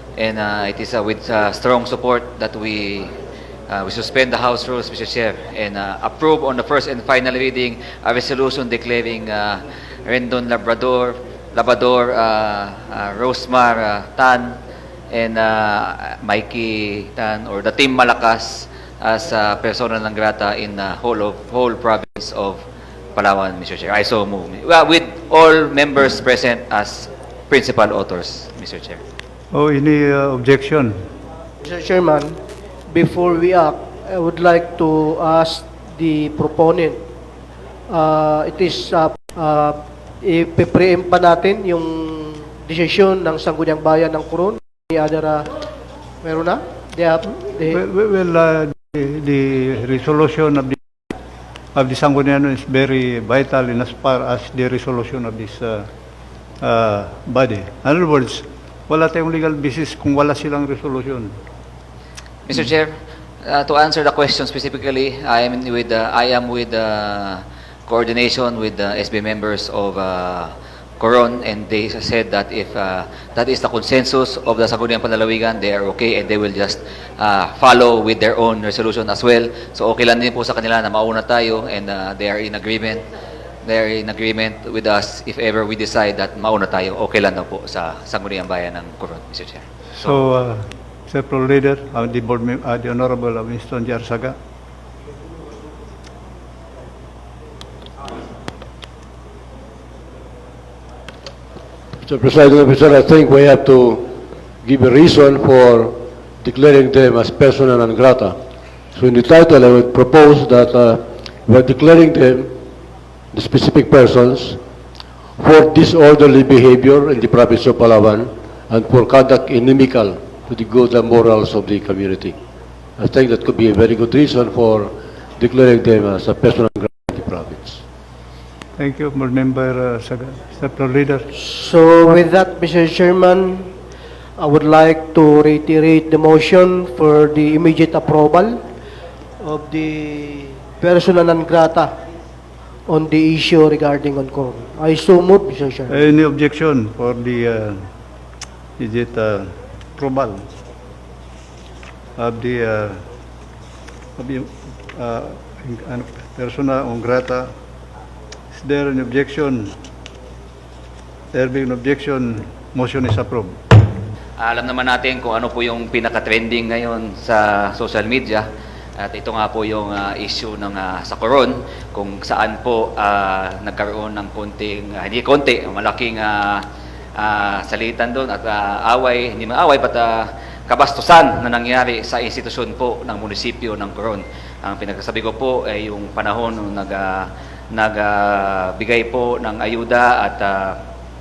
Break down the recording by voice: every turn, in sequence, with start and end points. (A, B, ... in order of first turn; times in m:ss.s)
0:00.2-0:03.1 A
0:03.7-0:14.6 A
0:15.1-0:22.6 A
0:23.2-0:29.0 A
0:29.5-0:31.0 B
0:31.6-0:32.3 C
0:32.9-0:37.0 C
0:37.9-0:45.4 C
0:46.2-0:47.8 C
0:47.7-0:50.8 B
0:51.8-0:55.9 B
0:56.6-1:01.3 B
1:02.5-1:23.0 A
1:23.6-1:30.2 A
1:30.0-1:34.4 B
1:42.0-1:44.1 D
1:44.6-1:48.4 D
1:48.9-1:52.5 D
1:53.3-1:54.6 D
1:55.4-2:02.4 D
2:03.0-2:07.8 D
2:08.8-2:11.3 B
2:11.3-2:13.7 C
2:14.4-2:18.6 C
2:19.4-2:21.9 C
2:22.9-2:26.0 C
2:25.9-2:27.8 B
2:28.8-2:30.4 B
2:32.2-2:33.0 B
2:34.2-2:37.5 B
2:38.5-2:39.7 B
2:41.3-2:43.6 B
2:44.4-2:48.5 A
2:49.0-2:56.6 A
2:57.2-3:10.8 A